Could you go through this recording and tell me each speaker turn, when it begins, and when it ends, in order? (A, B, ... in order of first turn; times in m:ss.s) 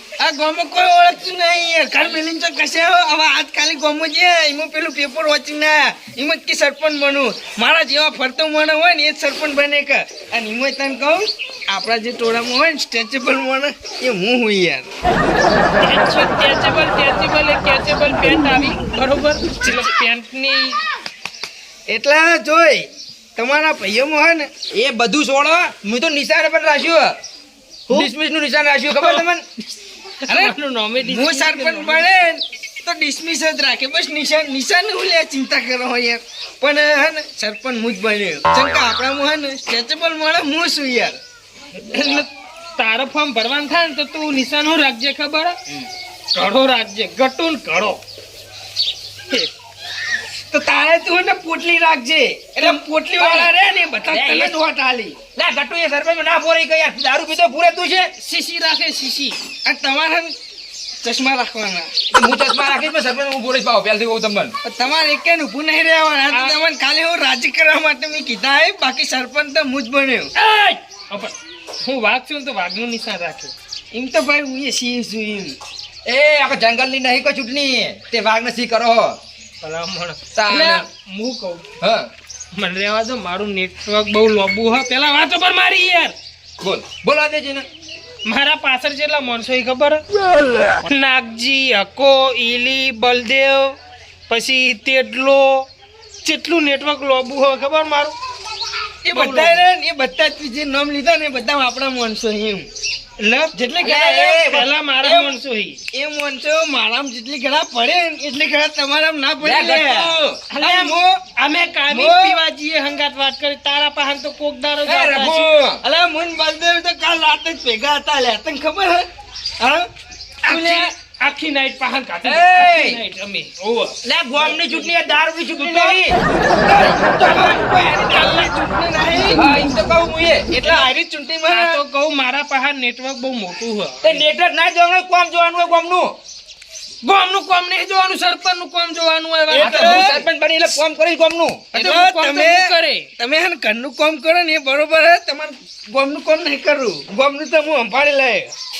0:00.2-0:14.9 A
0:15.8-0:20.8 B
0:19.6-0:19.9 A
0:21.9-0:22.9 A
0:23.4-0:24.5 A
0:24.7-0:27.2 C
0:27.9-0:29.3 C
0:29.0-0:29.4 A
0:30.3-0:32.1 B
0:31.0-0:41.2 A
0:41.8-0:45.6 B
0:46.3-0:48.0 B
0:50.5-0:55.2 A
0:53.2-0:53.5 C
0:54.0-0:54.5 C
0:55.3-0:58.1 C
0:58.2-0:59.4 B
0:59.6-1:00.4 A
1:01.0-1:02.0 A
1:02.1-1:04.5 C
1:04.6-1:10.3 A
1:06.3-1:06.6 B
1:10.4-1:13.5 B
1:13.9-1:15.6 A
1:16.1-1:19.2 C
1:19.6-1:21.7 B
1:20.4-1:20.9 C
1:21.8-1:22.1 C
1:22.6-1:26.2 B
1:26.6-1:27.7 C
1:28.2-1:30.0 B
1:30.8-1:33.8 B
1:34.3-1:35.7 B
1:36.2-1:38.2 B
1:39.0-1:42.7 A
1:39.1-1:39.6 B
1:43.2-1:45.8 B
1:43.6-1:44.1 A
1:43.8-1:44.7 C
1:45.0-1:45.4 A
1:45.9-1:51.2 A
1:49.4-1:50.4 C
1:50.5-1:55.5 B
1:51.9-1:52.4 A
1:54.9-1:55.8 C
1:55.8-1:59.1 A
1:59.6-1:59.8 A
2:00.4-2:00.9 A
2:00.4-2:04.0 B
2:02.2-2:03.0 C
2:04.0-2:06.2 C
2:05.6-2:05.9 A
2:06.6-2:09.5 A
2:07.3-2:07.5 B
2:08.2-2:08.4 B
2:09.2-2:09.5 B
2:09.3-2:10.5 C
2:10.5-2:11.8 A
2:11.5-2:14.2 B
2:14.0-2:16.2 C
2:17.0-2:20.3 B
2:19.5-2:21.7 C
2:19.6-2:20.1 A
2:21.7-2:22.7 A
2:21.8-2:23.1 B
2:23.2-2:28.5 A